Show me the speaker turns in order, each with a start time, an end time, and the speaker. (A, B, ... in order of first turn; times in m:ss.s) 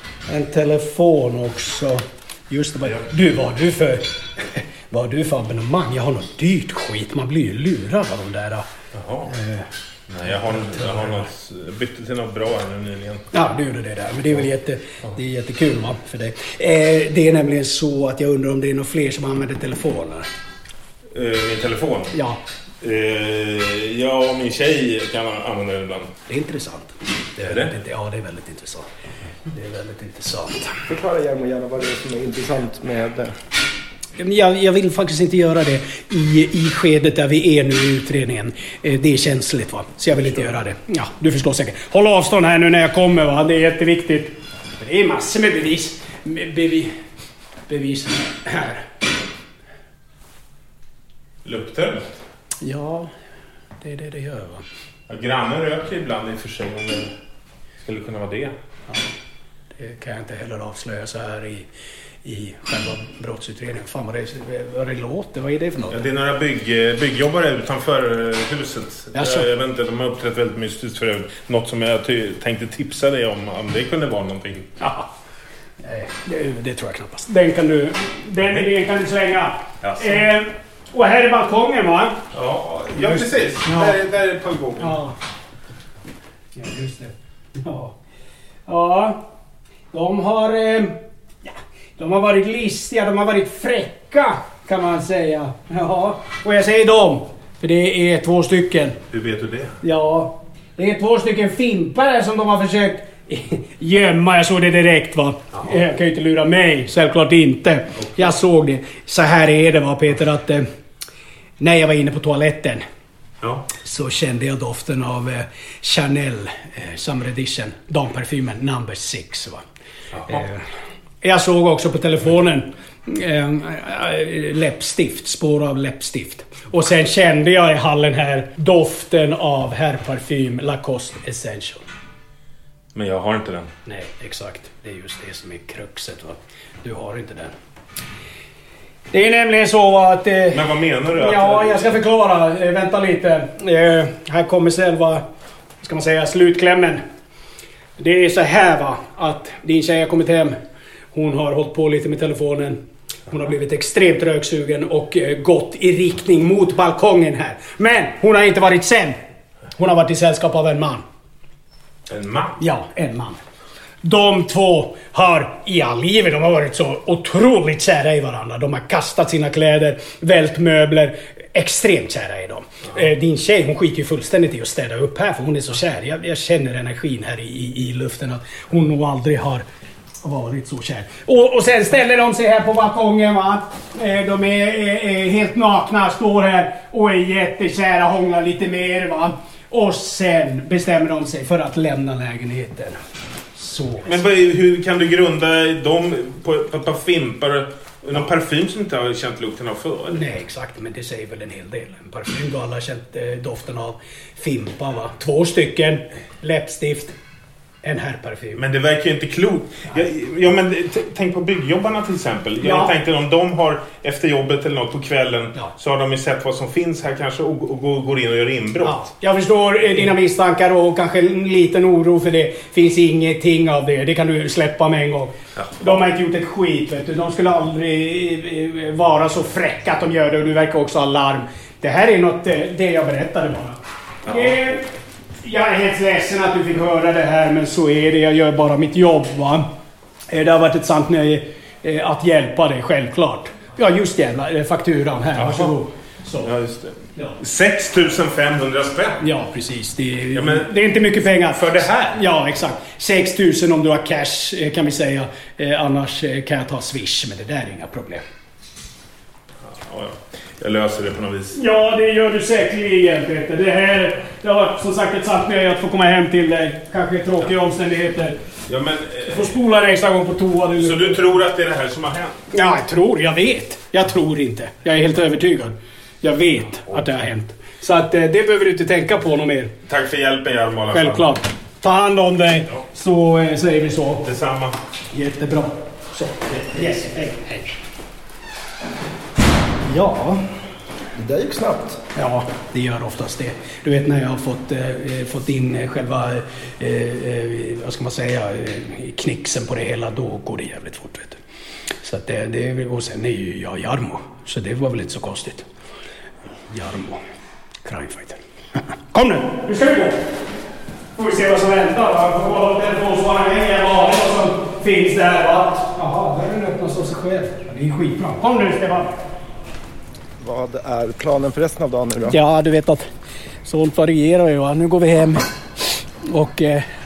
0:00.3-0:08.7 A
0:08.9-0:09.3 B
0:09.3-0:09.7 A
0:10.1-0:13.2 B
0:13.3-0:20.3 A
0:21.1-0:22.1 B
0:22.1-0:22.4 A
0:22.8-0:26.1 B
0:26.3-0:28.9 A
0:27.4-0:27.7 B
0:29.5-0:30.8 A
0:30.9-0:33.3 C
0:34.2-0:46.9 A
0:47.7-0:48.8 A
0:51.4-0:52.2 B
0:52.6-0:53.1 A
0:53.8-0:54.6 A
0:55.1-0:57.1 B
0:57.8-0:58.6 B
0:59.7-1:01.7 A
1:02.2-1:06.0 A
1:05.9-1:14.7 B
1:09.1-1:09.5 A
1:14.8-1:15.1 A
1:15.8-1:22.2 A
1:19.8-1:20.3 B
1:22.3-1:25.0 B
1:23.0-1:24.0 A
1:24.8-1:25.2 A
1:26.6-1:28.0 A
1:28.7-1:29.2 A
1:29.9-1:39.0 A
1:39.1-1:39.8 B
1:39.8-1:50.7 A
1:51.6-1:52.8 A
1:53.4-1:53.7 B
1:53.8-1:59.6 A
2:00.3-2:00.7 A
2:01.2-2:11.8 A
2:13.0-2:13.7 B
2:13.9-2:17.5 A
2:19.1-2:20.6 A
2:20.5-2:22.0 B
2:21.2-2:25.2 A
2:25.8-2:27.0 A
2:28.0-2:30.5 A
2:31.1-2:39.2 A
2:39.7-2:41.0 A
2:42.1-2:42.6 B
2:42.6-2:43.4 A
2:44.0-2:59.6 A
3:00.2-3:13.0 A
3:13.6-3:14.2 A
3:14.0-3:20.3 B
3:20.1-3:27.1 A
3:27.8-3:28.6 A
3:28.6-3:39.0 B
3:32.6-3:32.9 A
3:38.8-3:54.8 A
3:45.6-3:46.0 B
3:54.3-3:54.7 B
3:55.4-3:59.7 A
4:00.3-4:06.5 A
4:05.4-4:05.8 B
4:06.4-4:09.2 B
4:09.2-4:18.2 A
4:10.4-4:10.7 B
4:19.6-4:21.6 B
4:21.5-4:28.4 A
4:28.7-4:29.5 B
4:29.3-4:31.2 A
4:30.8-4:32.4 B
4:32.5-4:39.7 A
4:39.9-4:41.4 B
4:40.9-4:44.3 A
4:44.2-4:44.8 B
4:45.1-4:47.8 A
4:49.8-4:50.5 A
4:51.2-4:52.0 C
4:52.2-5:01.4 A
5:02.0-5:05.7 A
5:06.7-5:07.2 A
5:07.8-5:10.2 A
5:11.2-5:19.2 A
5:20.4-5:22.4 C
5:22.3-5:23.1 A
5:23.6-5:25.4 A
5:26.2-5:26.9 A